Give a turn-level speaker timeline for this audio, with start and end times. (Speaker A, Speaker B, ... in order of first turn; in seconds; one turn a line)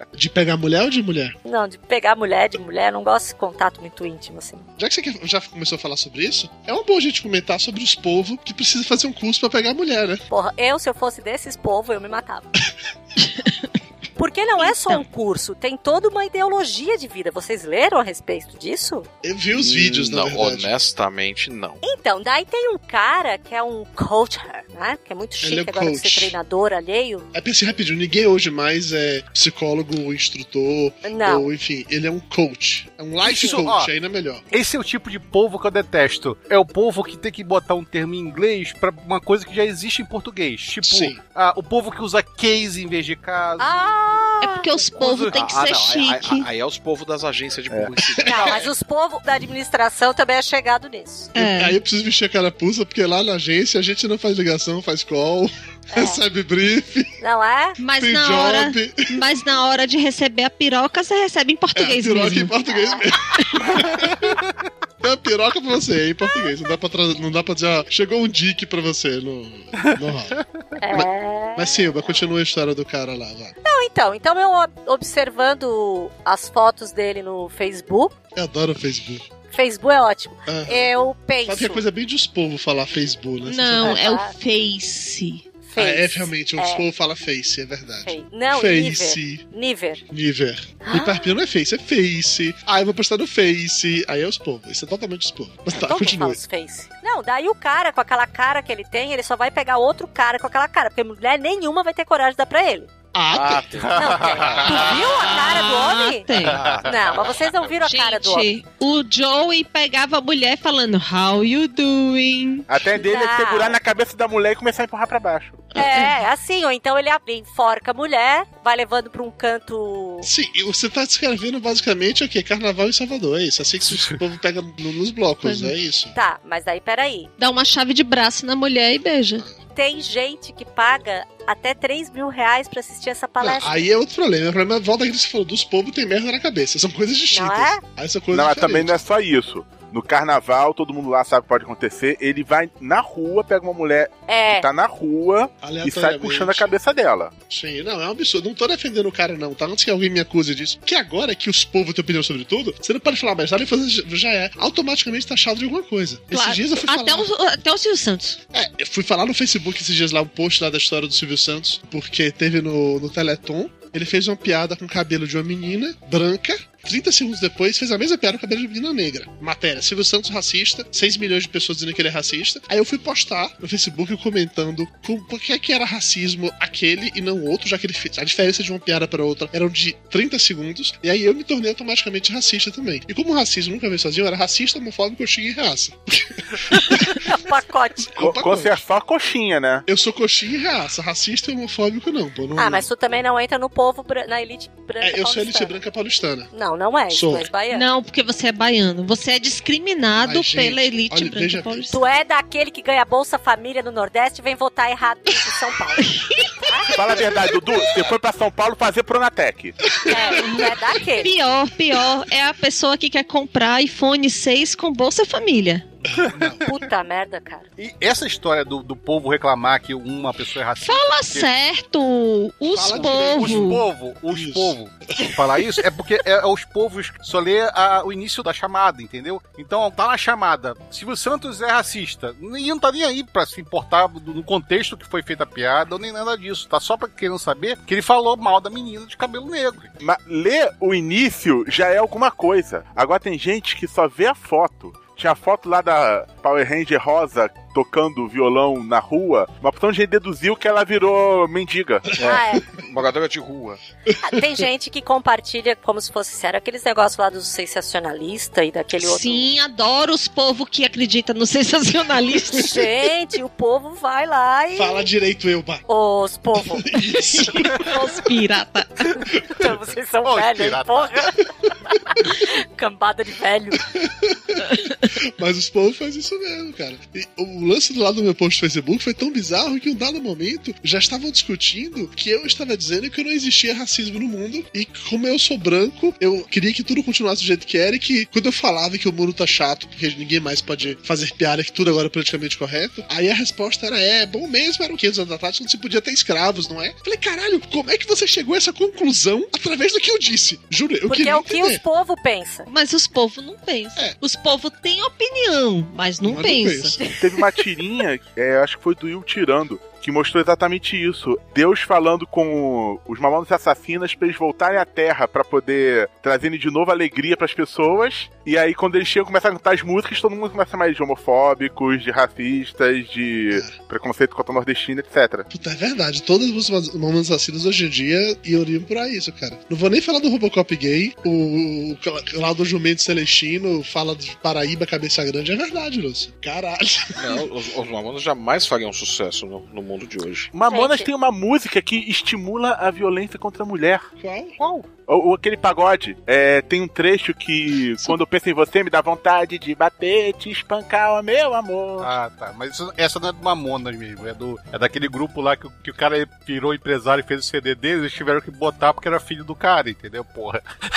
Speaker A: 0.1-1.4
Speaker B: 1.4-4.7
Speaker A: 4.8-10.2
Speaker B: 10.3-12.5
Speaker C: 13.2-13.6
Speaker B: 14.2-19.1
Speaker C: 14.6-15.0
Speaker A: 19.2-20.7
Speaker D: 19.5-21.8
Speaker B: 21.8-27.2
Speaker A: 25.4-26.4
Speaker A: 27.3-34.4
Speaker B: 31.1-31.5
Speaker B: 33.3-33.6
Speaker E: 33.3-33.9
Speaker E: 34.5-43.7
Speaker A: 40.8-41.2
Speaker B: 43.6-44.7
Speaker C: 44.4-46.5
Speaker D: 45.0-48.7
Speaker A: 48.2-48.6
Speaker B: 48.2-51.3
Speaker A: 51.3-57.2
Speaker C: 51.4-51.8
Speaker B: 55.9-56.2
Speaker B: 57.2-57.8
Speaker C: 57.8-62.5
Speaker A: 58.0-59.1
Speaker A: 61.8-64.4
Speaker A: 65.0-70.4
Speaker B: 70.8-72.3
Speaker A: 70.9-73.5
Speaker B: 73.6-78.1
Speaker A: 78.3-79.2
Speaker B: 79.5-81.8
Speaker A: 80.5-80.9
Speaker A: 81.4-84.0
Speaker C: 83.4-85.4
Speaker B: 83.8-84.3
Speaker B: 85.7-86.9
Speaker A: 85.8-89.4
Speaker B: 88.0-90.0
Speaker A: 90.1-96.4
Speaker B: 90.8-91.3
Speaker B: 95.7-102.9
Speaker A: 103.1-105.0
Speaker D: 103.3-105.0
Speaker E: 103.8-105.0
Speaker B: 103.9-106.3
Speaker C: 105.2-106.6
Speaker E: 106.5-106.9
Speaker D: 106.5-107.8
Speaker B: 106.8-108.5
Speaker C: 107.8-112.7
Speaker F: 112.7-115.7
Speaker B: 113.0-113.8
Speaker B: 115.7-120.3
Speaker C: 115.8-116.1
Speaker A: 120.2-126.2
Speaker C: 125.4-125.7
Speaker B: 126.1-127.3
Speaker C: 127.4-129.4
Speaker B: 129.7-133.8
Speaker A: 133.4-139.0
Speaker B: 137.3-137.8
Speaker F: 138.3-147.3
Speaker B: 144.3-144.7
Speaker A: 145.6-146.7
Speaker A: 147.5-157.3
Speaker C: 156.3-158.4
Speaker A: 158.5-187.2
Speaker B: 187.1-188.1
Speaker A: 188.1-188.8
Speaker F: 188.2-189.8
Speaker A: 189.9-192.9
Speaker B: 192.6-195.8
Speaker A: 195.0-196.5
Speaker B: 196.5-197.8
Speaker A: 197.1-197.5
Speaker C: 197.7-202.0
Speaker A: 200.2-201.9
Speaker B: 201.9-206.9
Speaker C: 206.1-206.5
Speaker F: 206.9-209.8
Speaker A: 210.0-210.6
Speaker B: 210.1-211.3
Speaker C: 211.2-215.8
Speaker A: 216.1-216.7
Speaker B: 216.6-217.7
Speaker E: 217.8-221.5
Speaker C: 220.8-223.8
Speaker A: 222.7-223.8
Speaker E: 222.9-239.9
Speaker A: 224.3-225.3
Speaker F: 240.0-252.1
Speaker D: 252.2-253.8
Speaker B: 252.2-252.6
Speaker B: 254.2-259.5
Speaker C: 259.0-262.8
Speaker B: 262.5-265.1
Speaker A: 264.7-265.8
Speaker B: 265.9-266.9
Speaker A: 266.6-267.8
Speaker C: 267.2-269.2
Speaker B: 269.4-273.9
Speaker E: 270.2-271.1
Speaker A: 273.9-301.8
Speaker B: 301.1-302.7
Speaker C: 302.7-306.9
Speaker A: 306.2-307.1
Speaker B: 307.0-307.4
Speaker F: 307.2-325.5
Speaker A: 325.5-337.4
Speaker D: 337.2-340.5
Speaker F: 340.5-344.1
Speaker B: 340.7-341.1
Speaker A: 344.2-344.5
Speaker F: 344.9-352.1
Speaker E: 352.0-360.6